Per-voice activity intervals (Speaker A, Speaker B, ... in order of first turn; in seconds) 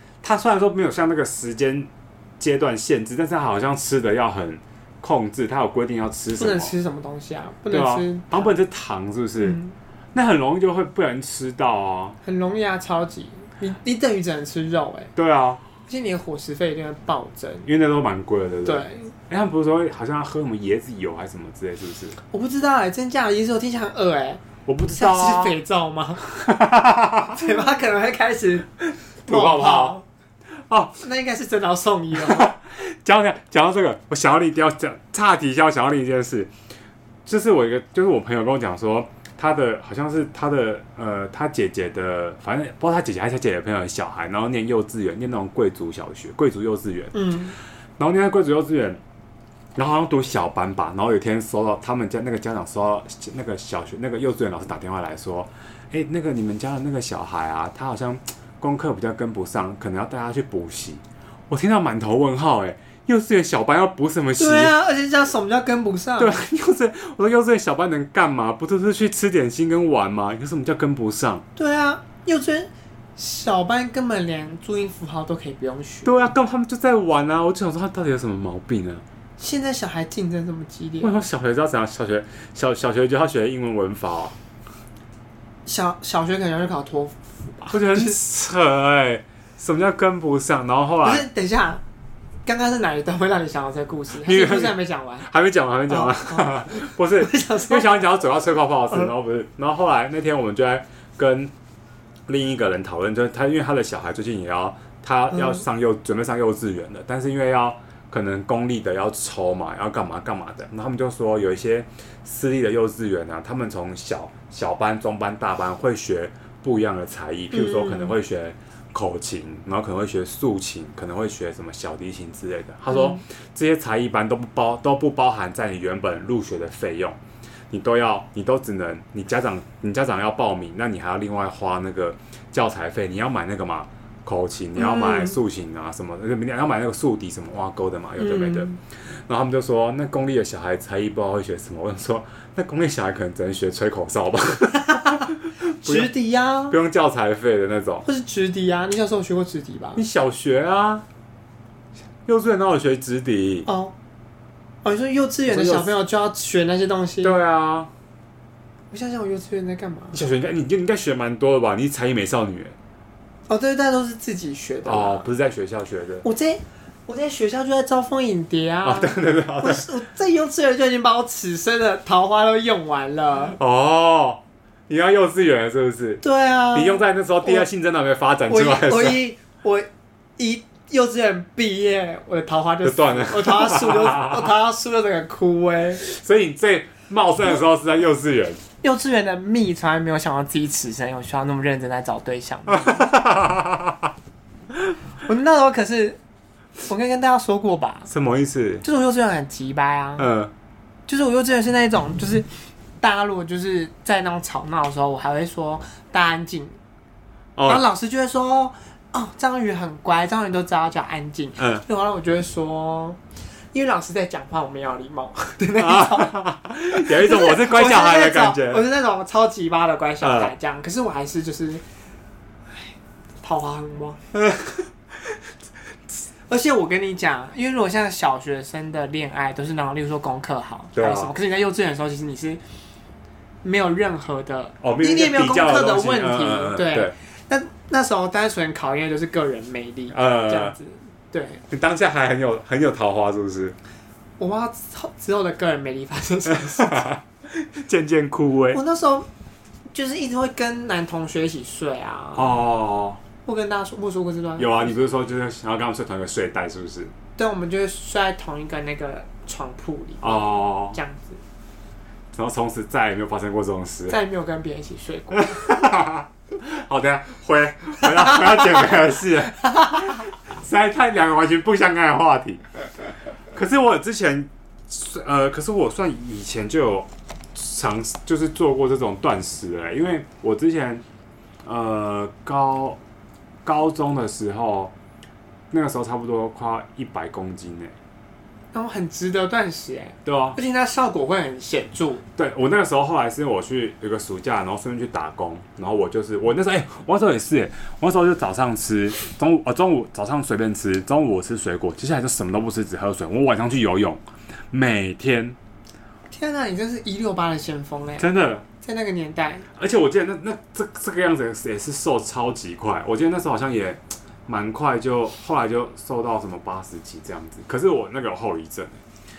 Speaker A: 0.2-6.7, 7.7-9.6, 10.1-12.2, 15.2-15.6, 17.6-22.1, 24.6-25.6, 26.3-27.4, 28.9-30.0, 30.5-31.0, 32.1-36.5, 37.2-47.1, 48.0-49.0, 49.7-64.7, 66.2-71.4, 76.0-79.0, 81.0-84.3, 87.7-91.2, 94.2-101.5, 102.3-127.2, 127.7-146.1, 146.7-148.0, 149.9-151.0, 152.2-153.7, 155.5-155.9, 157.2-157.9, 160.1-162.8, 164.8-166.2, 168.8-169.9, 173.6-179.2, 182.8-184.5, 186.0-188.6, 192.7-194.1, 198.1-198.8, 200.2-200.5, 207.6-207.8, 211.6-211.8, 215.8-218.8, 220.2-220.5, 224.3-224.9, 230.9-231.3, 234.8-237.1, 240.1-240.7, 241.7-243.8, 246.5-248.8, 252.3-253.2, 254.6-257.1, 260.2-261.0, 262.3-264.2, 265.3-272.6, 273.5-281.0, 281.6-283.0, 283.6-284.9, 285.7-287.9, 290.2-290.6, 292.4-305.6, 308.2-308.6, 309.7-319.0
Speaker B: 6.3-8.5, 9.4-9.7, 12.2-15.1, 15.8-17.7, 18.6-19.1, 22.2-26.2, 27.3-28.7, 29.2-30.0, 31.0-32.5, 47.1-47.5, 64.4-66.4, 71.5-76.2, 79.4-81.1, 85.7-88.2, 91.0-91.8, 92.5-95.3, 95.9-98.1, 105.3-105.6, 117.5-118.2, 122.9-123.2, 134.8-135.4, 138.2-138.8, 144.9-146.8, 148.0-150.0, 153.7-153.9, 154.8-157.3, 158.9-160.2, 163.5-165.2, 166.2-173.6, 176.2-177.7, 178.5-186.0, 188.8-193.2, 195.2-196.2, 196.8-198.1, 198.8-200.3, 201.1-202.5, 203.0-206.8, 207.7-213.2, 213.7-216.4, 216.9-221.8, 222.7-224.2, 226.5-232.6, 233.6-241.6, 244.4-247.0, 248.7-249.3, 249.9-252.6, 253.4-254.9, 257.4-261.4, 264.1-265.7, 288.7-292.2, 306.3-308.3, 308.8-309.6